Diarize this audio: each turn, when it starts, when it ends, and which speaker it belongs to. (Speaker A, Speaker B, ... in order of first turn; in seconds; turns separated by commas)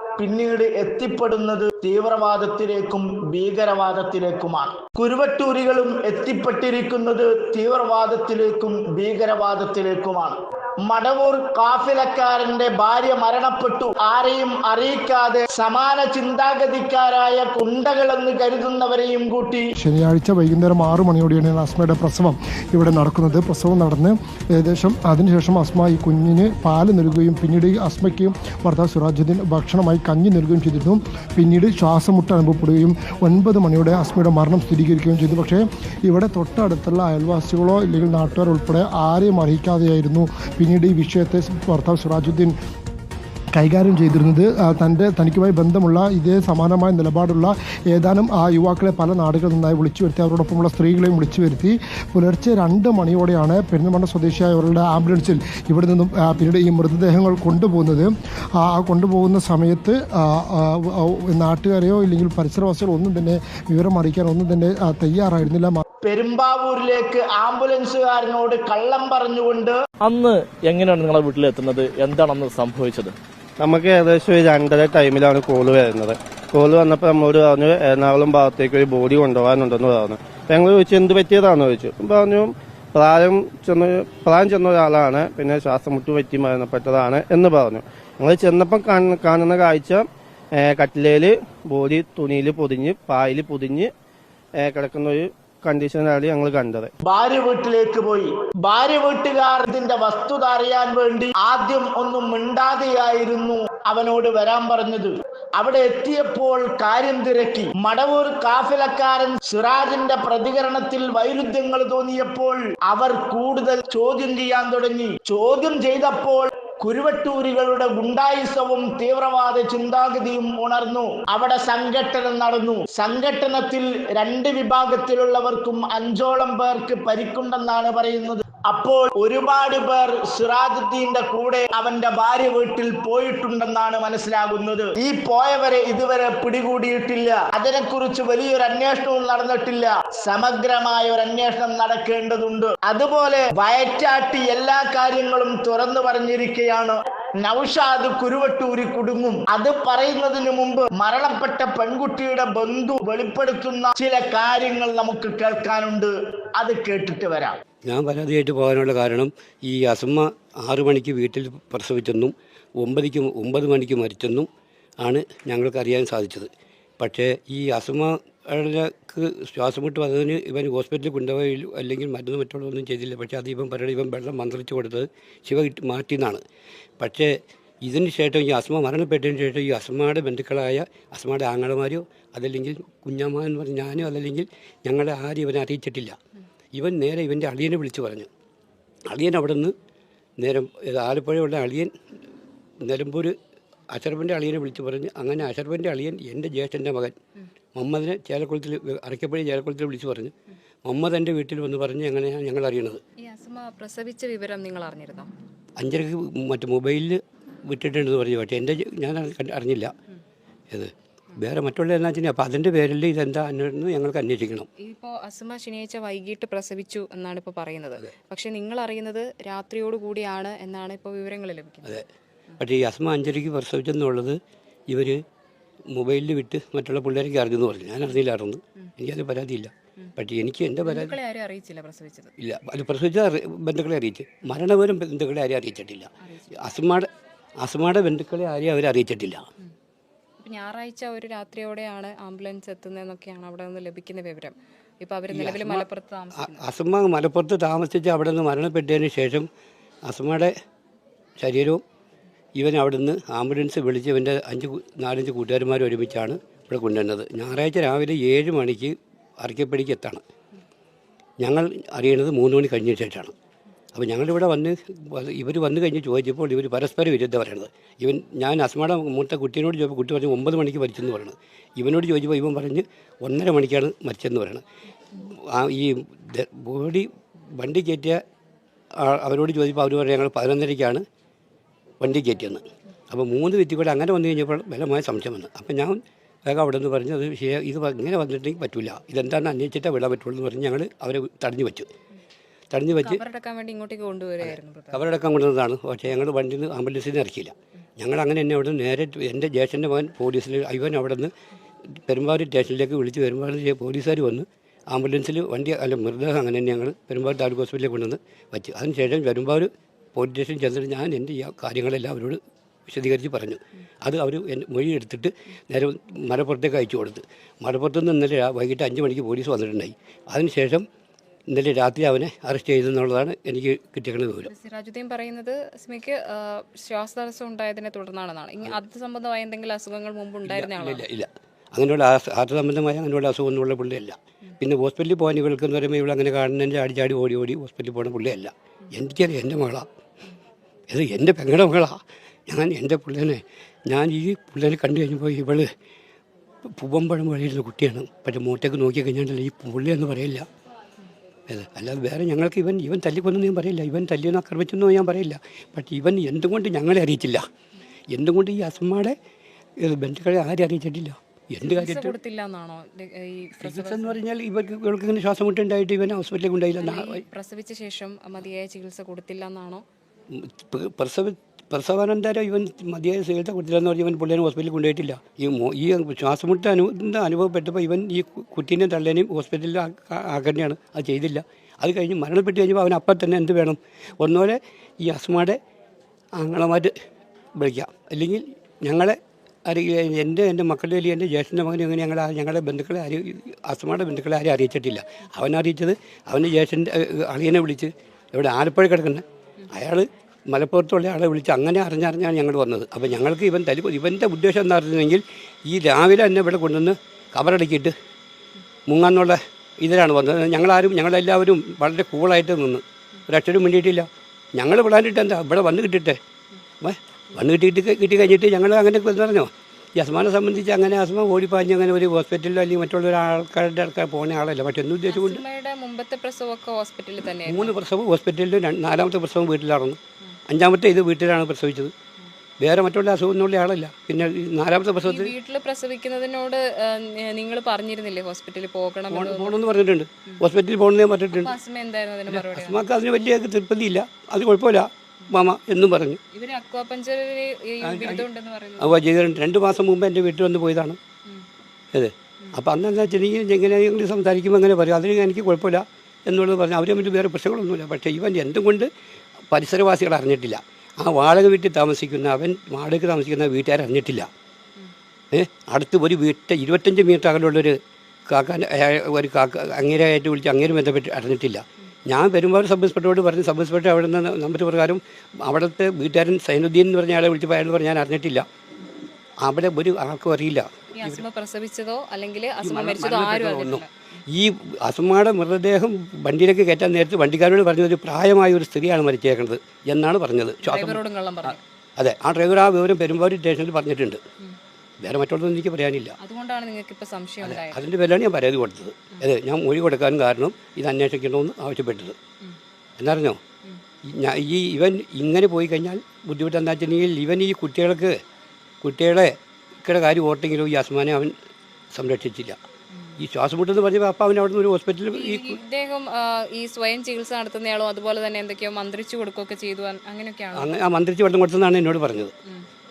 Speaker A: 0.2-19.7, Speaker B: 19.8-42.5, Speaker B: 43.5-65.8, Speaker A: 66.0-69.8, Speaker C: 70.0-73.1, Speaker D: 73.6-93.9, Speaker D: 94.6-96.9, Speaker A: 97.0-157.6, Speaker E: 157.8-164.5, Speaker E: 165.0-166.5, Speaker E: 167.0-176.4, Speaker E: 177.0-177.3, Speaker E: 177.8-186.2, Speaker E: 186.7-188.3, Speaker E: 189.1-189.7, Speaker E: 190.4-191.9, Speaker E: 192.8-193.3, Speaker E: 193.9-197.2, Speaker E: 197.7-200.3, Speaker E: 200.9-203.0, Speaker F: 203.2-205.3, Speaker E: 205.8-209.9, Speaker E: 210.7-214.6, Speaker F: 214.8-222.0, Speaker E: 222.6-224.4, Speaker E: 224.9-225.2, Speaker E: 225.9-231.1, Speaker F: 230.8-232.3, Speaker E: 232.4-237.1, Speaker F: 236.2-236.7, Speaker E: 237.6-239.4, Speaker F: 240.4-246.6, Speaker E: 245.3-249.5, Speaker E: 250.1-250.5, Speaker E: 251.4-251.8, Speaker E: 252.6-260.2, Speaker E: 261.4-263.3, Speaker E: 263.9-274.6, Speaker E: 275.5-277.1, Speaker E: 277.6-278.2, Speaker E: 279.0-281.0, Speaker E: 282.0-282.6, Speaker E: 283.1-291.9, Speaker E: 292.7-293.2, Speaker F: 292.9-295.1, Speaker E: 294.4-301.3, Speaker E: 302.1-320.8, Speaker E: 321.5-324.5, Speaker F: 324.4-331.1, Speaker E: 330.4-339.9, Speaker E: 340.9-341.9, Speaker E: 342.5-345.7, Speaker E: 346.8-350.4, Speaker E: 351.5-357.4, Speaker E: 358.1-359.1, Speaker E: 359.8-362.1, Speaker F: 361.6-364.2, Speaker E: 363.6-367.2, Speaker F: 366.8-369.8, Speaker E: 370.4-385.6, Speaker E: 386.4-386.9, Speaker E: 387.6-389.2, Speaker E: 389.7-399.2, Speaker E: 399.9-407.9, Speaker E: 408.9-416.2, Speaker E: 416.8-425.4, Speaker F: 425.1-427.8, Speaker E: 427.4-430.0, Speaker E: 430.5-431.9, Speaker E: 432.6-435.3, Speaker F: 435.0-439.6, Speaker E: 439.1-441.5, Speaker F: 441.3-442.9, Speaker E: 442.3-446.2, Speaker F: 446.3-449.0, Speaker E: 447.8-448.2, Speaker E: 448.8-451.0, Speaker E: 451.9-458.9, Speaker E: 459.5-464.3, Speaker E: 465.3-467.8, Speaker E: 468.3-478.4, Speaker E: 479.4-481.2, Speaker F: 481.0-483.9, Speaker E: 482.6-494.2, Speaker F: 490.6-491.6, Speaker E: 495.0-496.1, Speaker F: 496.2-497.8, Speaker E: 497.4-502.2, Speaker E: 503.0-503.4, Speaker E: 504.1-508.2, Speaker E: 508.8-511.3, Speaker E: 511.9-512.6, Speaker E: 513.2-515.6, Speaker F: 515.1-520.7, Speaker E: 520.5-522.3